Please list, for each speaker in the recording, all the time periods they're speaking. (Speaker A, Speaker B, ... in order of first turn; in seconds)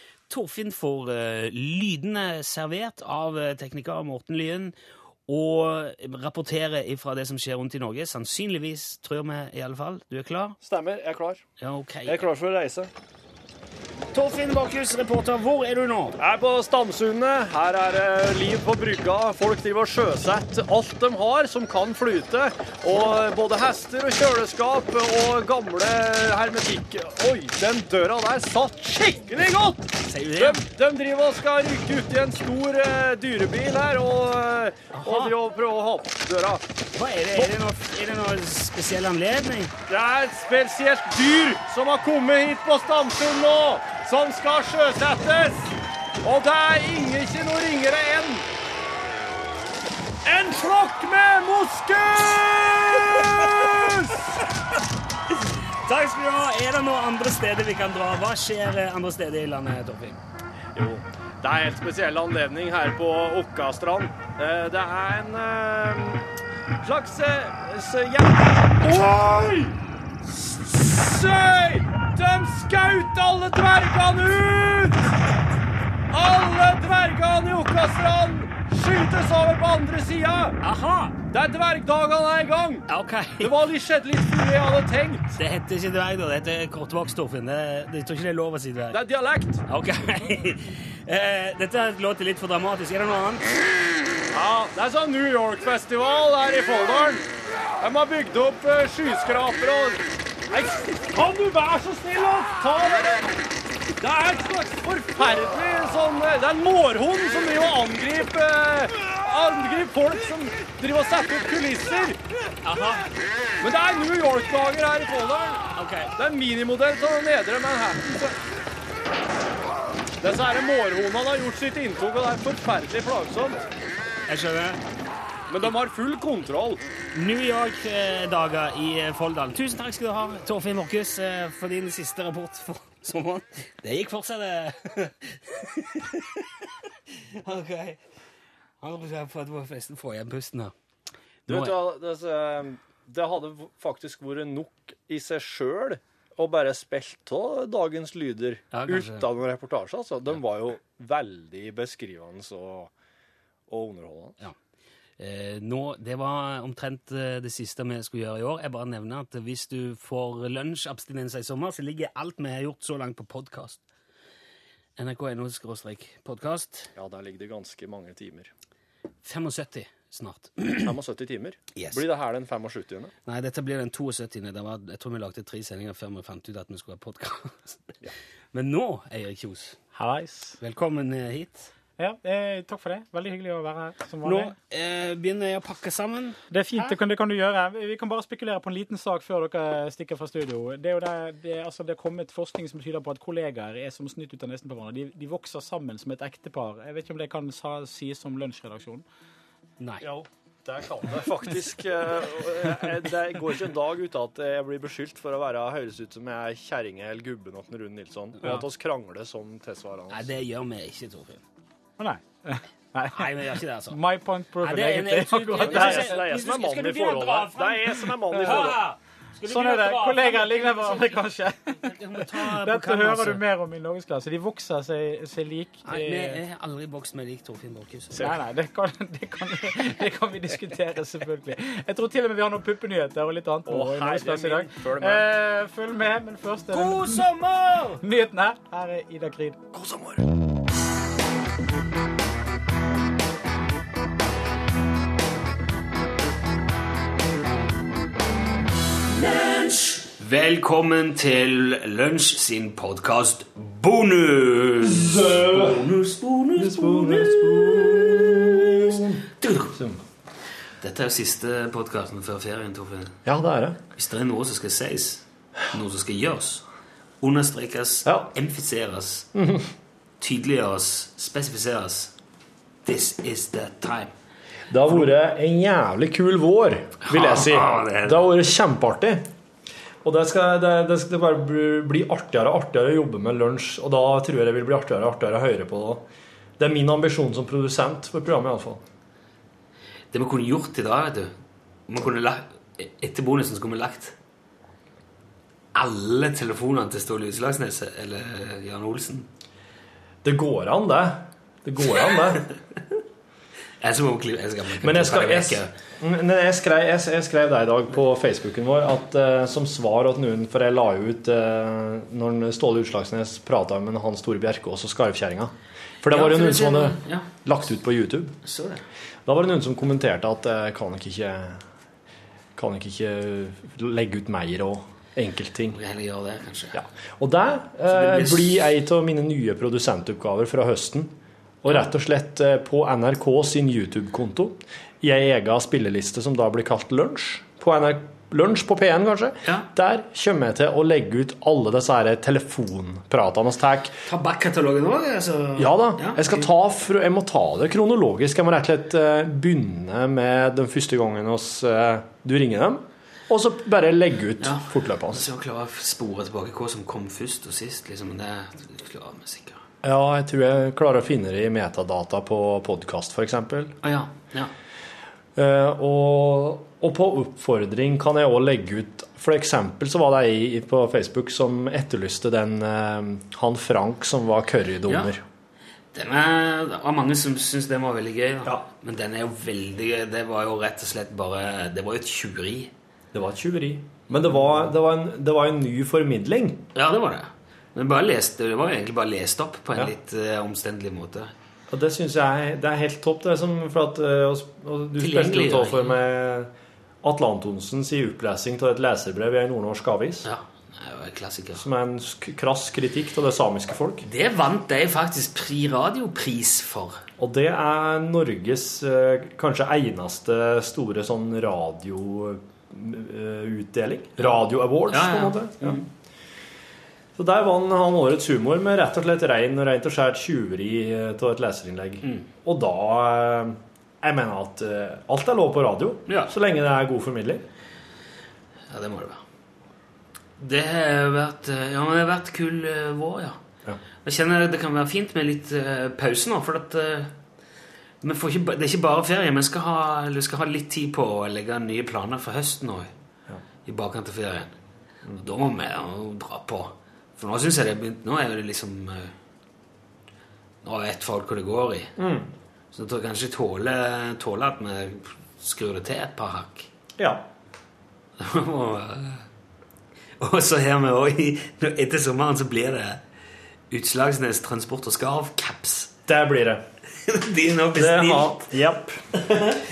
Speaker A: 0.3-4.7, 5.3-10.6, 11.6-12.2, 14.1-16.2, 30.0-30.6, 34.9-35.4, 36.9-39.7, 55.3-60.2, 80.6-81.2, 82.9-83.5, 85.3-89.0, 89.7-93.6, 112.6-113.1, 115.7-116.1, 124.3-124.8, 127.1-138.0, 138.8-140.7, 141.5-141.8, 148.7-149.3, 155.2-163.8, 165.0-166.9, 169.2-170.9, 171.7-172.0, 173.2-177.9, 178.5-179.8, 180.6-181.7, 184.2-186.4, 199.8-200.1, 210.1-211.4, 213.1-214.0, 214.6-223.4, 225.8-228.3, 236.7-238.0, 249.1-259.8, 260.8-263.2, 263.9-266.6, 267.2-269.3, 270.2-272.1, 272.8-274.1, 277.0-278.3, 290.1-291.3, 291.9-294.1, 295.7-299.3, 303.8-305.7, 316.1-317.3, 318.4-318.8, 325.7-326.8, 327.9-328.7, 344.1-346.5, 354.4-359.6, 363.8-364.5, 374.9-375.1, 375.9-382.7, 384.2-384.7, 386.7-391.3, 395.0-396.0, 400.2-401.6, 404.0-407.0, 414.2-415.9, 426.1-426.3, 428.7-429.2, 430.4-433.4, 434.0-437.1, 438.0-442.9, 443.6-444.6, 445.2-449.1, 450.6-451.9, 452.7-456.7, 458.2-459.3, 460.2-463.0, 463.7-465.9, 467.1-468.5, 469.2-469.6
Speaker B: 10.6-11.4, 12.1-12.9, 16.2-36.6, 39.9-45.7, 46.2-48.4, 50.2-54.3, 60.7-66.2, 66.8-75.0, 76.1-80.6, 81.3-82.8, 83.4-85.3, 88.9-89.6, 94.3-97.2, 97.8-103.3, 104.0-112.2, 113.6-115.6, 116.2-118.4, 120.2-123.6, 125.5-126.8, 141.5-152.9, 153.7-154.4, 166.9-168.5, 170.8-173.1, 200.0-210.3, 215.6-218.8, 233.7-235.3, 239.7-240.2, 254.8-255.8, 256.6-260.0, 263.2-263.8, 269.3-269.7, 274.7-279.3, 280.0-286.0, 286.6-288.8, 300.2-302.5, 304.8-318.3, 319.3-321.6, 322.6-325.8, 326.7-331.1, 331.6-343.9, 345.6-355.3, 359.8-363.8, 365.4-375.2, 383.1-386.6, 391.7-396.5, 397.0-400.3, 401.6-404.1, 407.2-415.8, 417.2-427.4, 452.0-452.3, 457.0-457.2, 466.1-466.6, 467.7-469.2
Speaker C: 179.9-180.6, 182.0-184.6, 186.5-199.1, 212.0-216.3, 218.3-218.7, 219.4-226.4, 228.2-237.3, 238.0-239.6